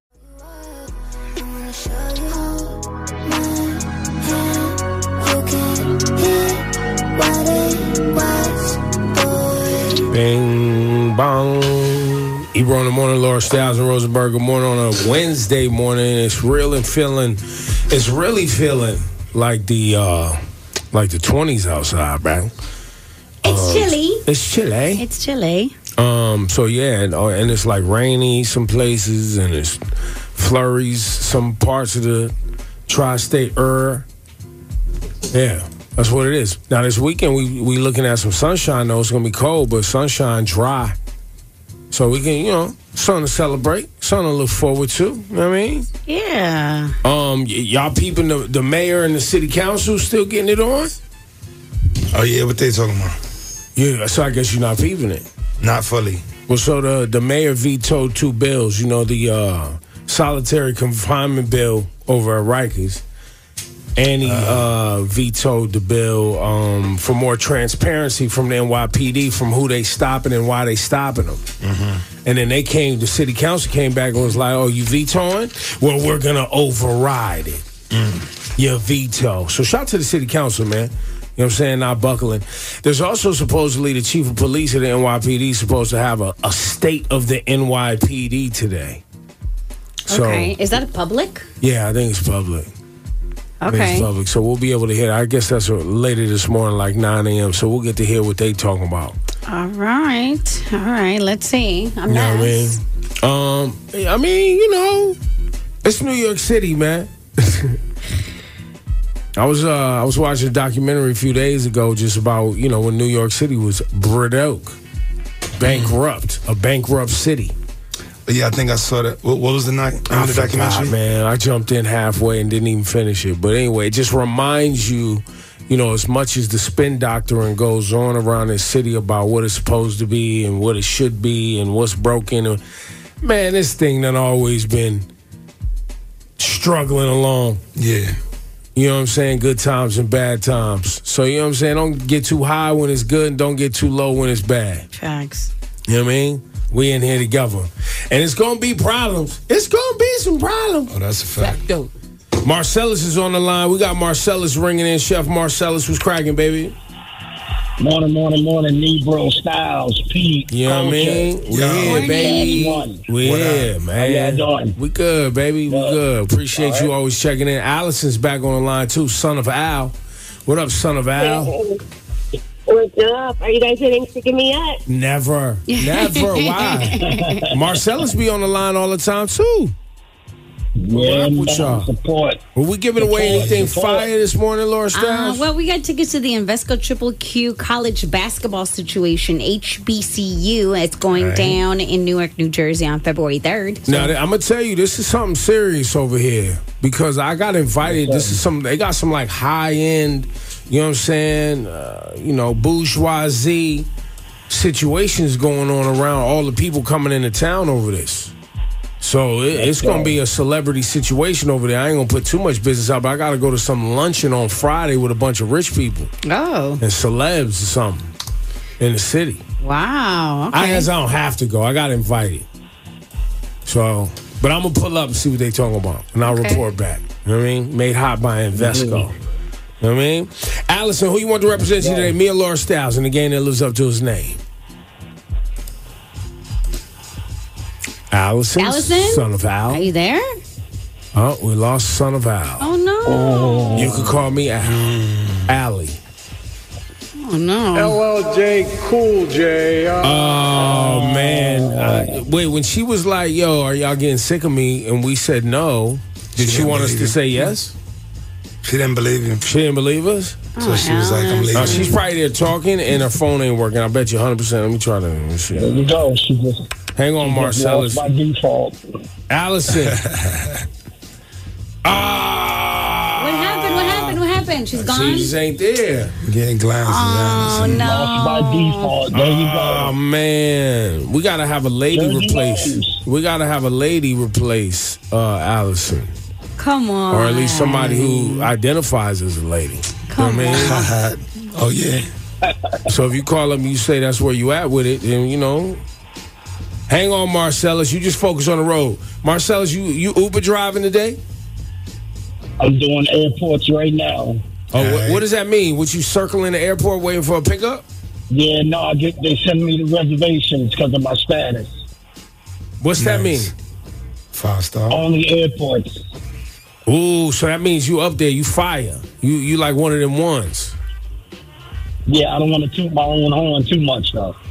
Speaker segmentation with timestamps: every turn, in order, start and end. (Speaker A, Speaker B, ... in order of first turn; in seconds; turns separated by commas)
Speaker A: 2.1-2.7, Speaker A: 5.3-6.6, Speaker A: 7.2-8.6, Speaker B: 10.1-20.4, Speaker B: 20.9-22.5, Speaker C: 23.4-24.2, Speaker B: 23.4-25.0, Speaker C: 25.0-25.8, Speaker B: 26.0-29.8, Speaker B: 30.4-32.3, Speaker B: 32.9-34.0, Speaker B: 35.3-41.0, Speaker B: 41.9-45.9, Speaker C: 46.1-47.0, Speaker B: 47.0-51.0, Speaker D: 52.1-53.2, Speaker B: 53.8-55.2, Speaker D: 55.6-56.3, Speaker B: 56.5-63.0, Speaker B: 64.0-71.4, Speaker D: 64.2-64.7, Speaker D: 71.6-72.0, Speaker B: 72.2-77.6, Speaker D: 77.9-78.3, Speaker B: 78.6-89.0, Speaker C: 90.1-91.5, Speaker B: 90.1-90.5, Speaker B: 91.6-92.7, Speaker C: 93.6-94.1, Speaker B: 93.7-99.2, Speaker C: 99.5-102.8, Speaker B: 102.1-105.2, Speaker B: 105.8-107.8, Speaker B: 109.3-114.8, Speaker B: 115.6-117.5, Speaker D: 115.6-115.9, Speaker D: 118.2-121.0, Speaker B: 120.1-132.6, Speaker B: 133.2-135.1, Speaker B: 136.4-137.6, Speaker D: 137.8-138.2, Speaker B: 138.8-144.8, Speaker C: 144.9-145.5, Speaker B: 145.9-150.9, Speaker D: 150.9-151.6, Speaker C: 151.4-151.8, Speaker B: 152.4-156.8, Speaker E: 157.8-161.4, Speaker B: 160.5-169.9, Speaker D: 161.5-162.1, Speaker C: 161.8-162.7, Speaker E: 161.9-163.0, Speaker D: 163.2-163.7, Speaker E: 164.0-164.8, Speaker E: 165.7-166.0, Speaker E: 166.5-166.9, Speaker B: 170.5-171.5, Speaker A: 171.2-171.8, Speaker A: 172.7-174.8, Speaker B: 174.9-179.8, Speaker C: 175.7-177.4, Speaker E: 177.0-177.5, Speaker E: 180.8-182.4, Speaker B: 180.9-181.9, Speaker B: 182.6-185.5, Speaker E: 183.0-184.1, Speaker C: 184.9-194.1, Speaker D: 191.2-191.6, Speaker B: 193.8-203.9, Speaker E: 197.8-198.4, Speaker B: 204.5-208.3, Speaker B: 209.0-216.1, Speaker E: 209.5-210.2, Speaker C: 216.2-216.8, Speaker B: 216.8-218.1, Speaker B: 218.8-219.4, Speaker C: 219.6-220.9, Speaker B: 220.5-222.5, Speaker B: 223.7-229.2, Speaker C: 226.3-226.6, Speaker E: 228.6-229.1, Speaker B: 229.8-234.4, Speaker E: 231.6-232.1, Speaker B: 238.1-239.9, Speaker C: 238.6-240.2, Speaker B: 241.1-242.7, Speaker C: 242.6-243.9, Speaker E: 243.1-244.2, Speaker B: 243.7-244.9, Speaker D: 244.6-245.5, Speaker B: 245.5-246.0, Speaker C: 247.2-248.0, Speaker F: 247.8-250.4, Speaker B: 250.0-257.7, Speaker E: 250.7-252.1, Speaker D: 256.4-257.4, Speaker D: 258.6-259.4, Speaker B: 259.4-260.5, Speaker C: 260.6-261.9, Speaker D: 260.6-262.0, Speaker B: 261.5-265.8, Speaker E: 265.5-266.6, Speaker B: 266.9-268.0, Speaker E: 267.2-268.8, Speaker B: 269.3-270.0, Speaker D: 269.9-270.6, Speaker B: 271.8-274.2, Speaker C: 273.2-275.3, Speaker B: 274.7-276.1, Speaker D: 276.2-277.9, Speaker C: 276.9-279.0, Speaker E: 277.6-279.9, Speaker B: 279.1-286.1, Speaker E: 281.9-283.0, Speaker C: 286.6-288.5, Speaker B: 287.1-290.9, Speaker C: 290.1-290.9, Speaker D: 290.5-292.1, Speaker B: 292.9-295.8, Speaker B: 296.9-301.2, Speaker E: 302.6-304.4, Speaker B: 304.7-307.8, Speaker D: 304.7-305.2, Speaker E: 308.3-311.8, Speaker B: 312.8-313.5, Speaker D: 312.9-313.5, Speaker D: 314.3-315.0, Speaker E: 314.9-316.0, Speaker B: 316.9-320.7, Speaker E: 322.1-324.4